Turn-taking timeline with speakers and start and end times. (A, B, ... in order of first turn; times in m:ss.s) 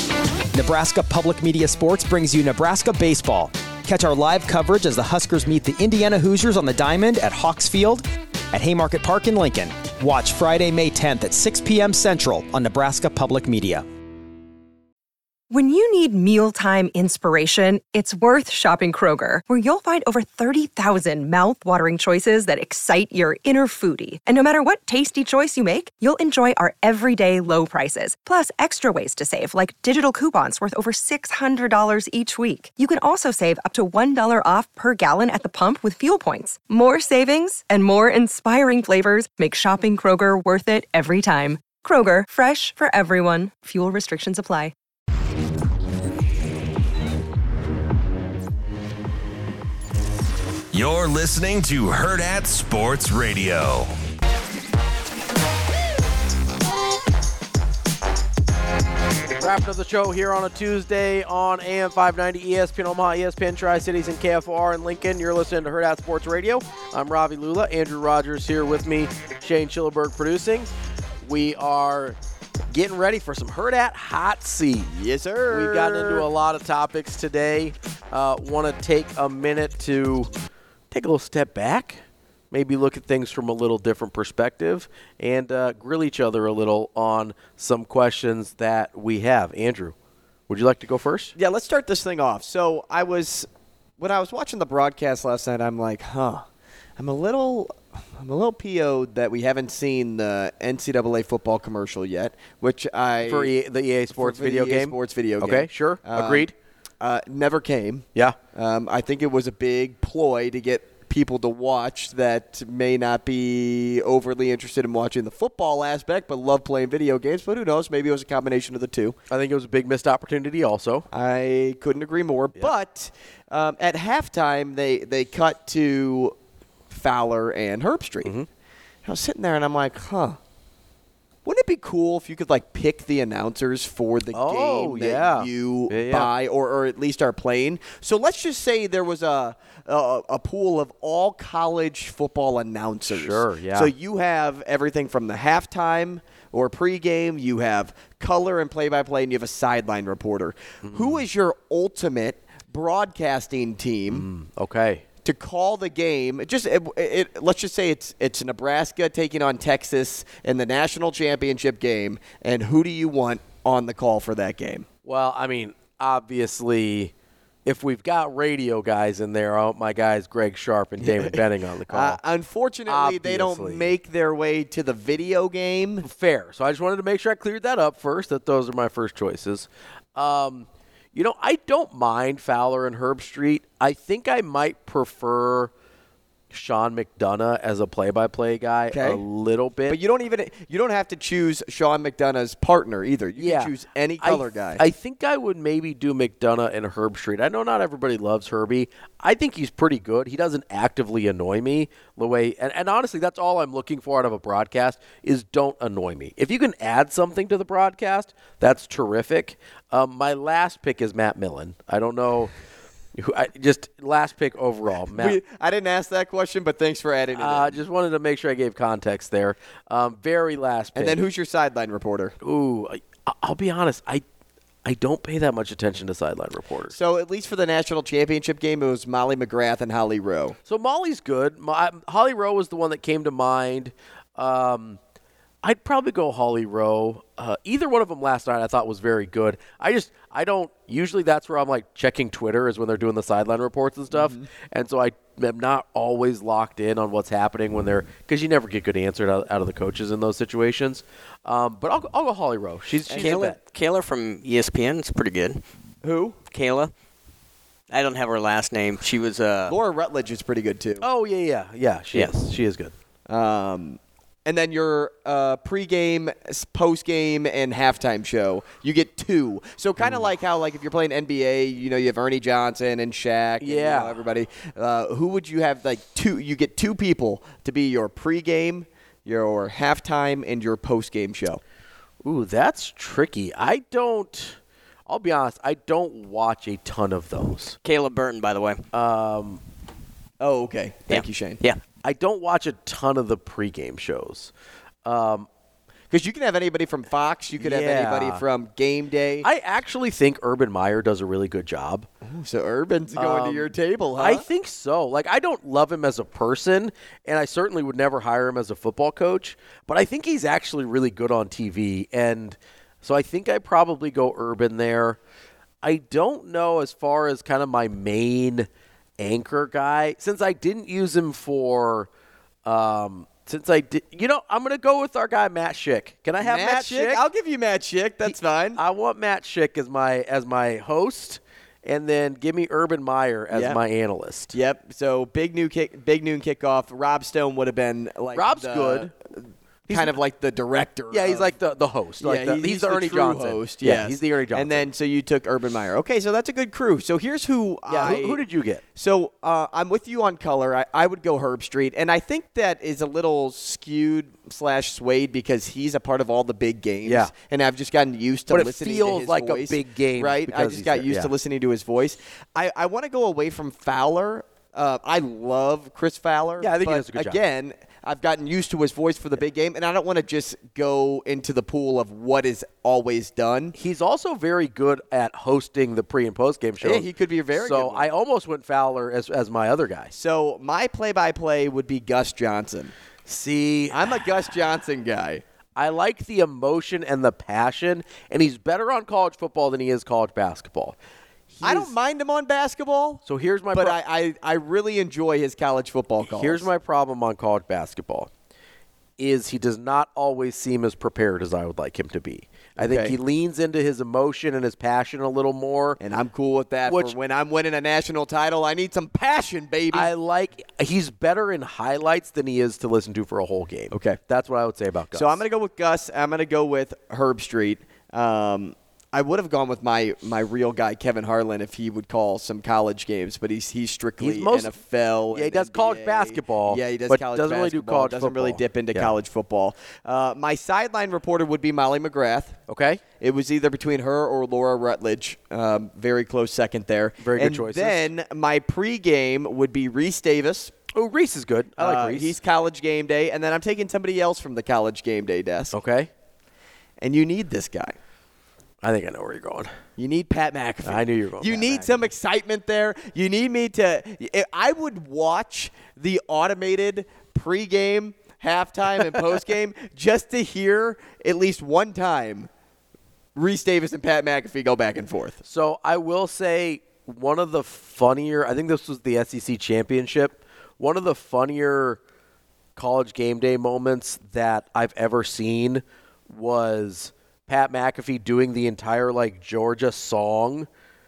0:00.5-0:13.8 A
0:15.5-0:44.7 B
0:50.7-0:53.9 C
0:59.4-1:10.7 D
1:11.2-1:12.2 D
1:12.7-1:14.9 D
1:14.9-1:16.3 E
1:15.5-1:20.3 D
1:20.9-1:29.9 D
1:30.5-1:31.3 D
1:31.3-1:33.5 E
1:34.0-1:36.4 E
1:37.0-1:43.5 E
1:43.2-1:46.5 D
1:44.1-1:59.2 E
1:59.3-2:01.1 D
2:01.1-2:06.3 E
2:06.9-2:08.3 E
2:09.0-2:10.4 E
2:11.4-2:34.2 E
2:14.3-2:16.3 D
2:23.1-2:23.9 D
2:30.8-2:31.2 D
2:34.1-2:35.0 D
2:35.2-2:44.8 E
2:45.0-2:47.1 D
2:47.6-2:52.2 D
2:51.0-2:56.0 E
2:52.8-2:53.9 D
2:56.0-3:05.7 D
3:06.5-3:10.0 D
3:08.9-3:09.2 E
3:09.9-3:14.8 E
3:13.4-3:32.5 D
3:33.1-3:35.4 D
3:35.1-3:37.8 E
3:37.3-3:41.2 D
3:40.9-3:42.3 E
3:42.4-3:44.2 D
3:44.8-3:46.9 D
3:46.9-3:50.6 E
3:50.6-3:55.0 D
3:55.6-4:13.6 D
4:04.1-4:04.4 E
4:13.1-4:13.6 E
4:13.1-4:15.6 F
4:16.0-4:16.4 E
4:16.5-4:16.9 F
4:17.9-4:19.8 F
4:19.7-4:21.0 E
4:21.0-4:22.9 D
4:23.3-4:41.6 E
4:30.0-4:30.3 D
4:33.6-4:34.2 D
4:42.2-4:44.6 D
4:45.1-4:47.8 D
4:47.8-4:48.8 F
4:48.9-4:49.6 D
4:50.4-4:51.6 E
4:51.1-4:51.8 F
4:52.0-4:54.5 D
4:55.0-4:55.5 D
4:56.1-4:59.5 E
4:57.6-4:58.4 D
4:59.4-5:02.1 D
5:02.2-5:04.4 E
5:03.1-5:15.2 D
5:15.8-5:18.7 D
5:19.2-5:22.1 D
5:22.6-5:27.2 D
5:26.4-5:28.8 E
5:28.2-5:34.5 D
5:33.5-5:33.8 E
5:34.5-5:41.5 E
5:38.3-5:39.1 D
5:39.9-5:40.2 D
5:41.1-5:44.8 D
5:42.2-5:48.4 E
5:47.9-5:48.8 D
5:48.9-6:13.7 E
5:57.0-5:57.3 D
5:58.5-6:01.3 D
6:06.6-6:07.4 D
6:13.7-6:20.1 D
6:16.8-6:18.1 E
6:20.1-6:22.9 E
6:23.3-6:24.2 D
6:23.9-6:25.4 E
6:25.8-6:31.0 D
6:31.5-6:31.9 D
6:31.6-6:36.7 E
6:33.2-6:34.0 D
6:36.2-6:38.3 D
6:39.2-6:46.0 D
6:42.8-6:43.2 E
6:46.0-6:50.1 E
6:46.8-6:47.1 D
6:49.9-6:55.4 D
6:53.9-6:54.2 E
6:55.1-7:12.5 E
7:04.2-7:04.7 D
7:05.3-7:09.1 D
7:12.7-7:13.0 D
7:13.2-7:20.7 E
7:17.2-7:18.1 D
7:20.9-7:22.4 D
7:21.8-7:25.8 E
7:25.7-7:26.1 D
7:27.0-7:28.0 E
7:28.8-7:29.7 D
7:30.0-7:42.5 E
7:30.8-7:32.1 D
7:43.4-7:45.4 E
7:45.4-7:52.0 D
7:52.8-8:00.7 D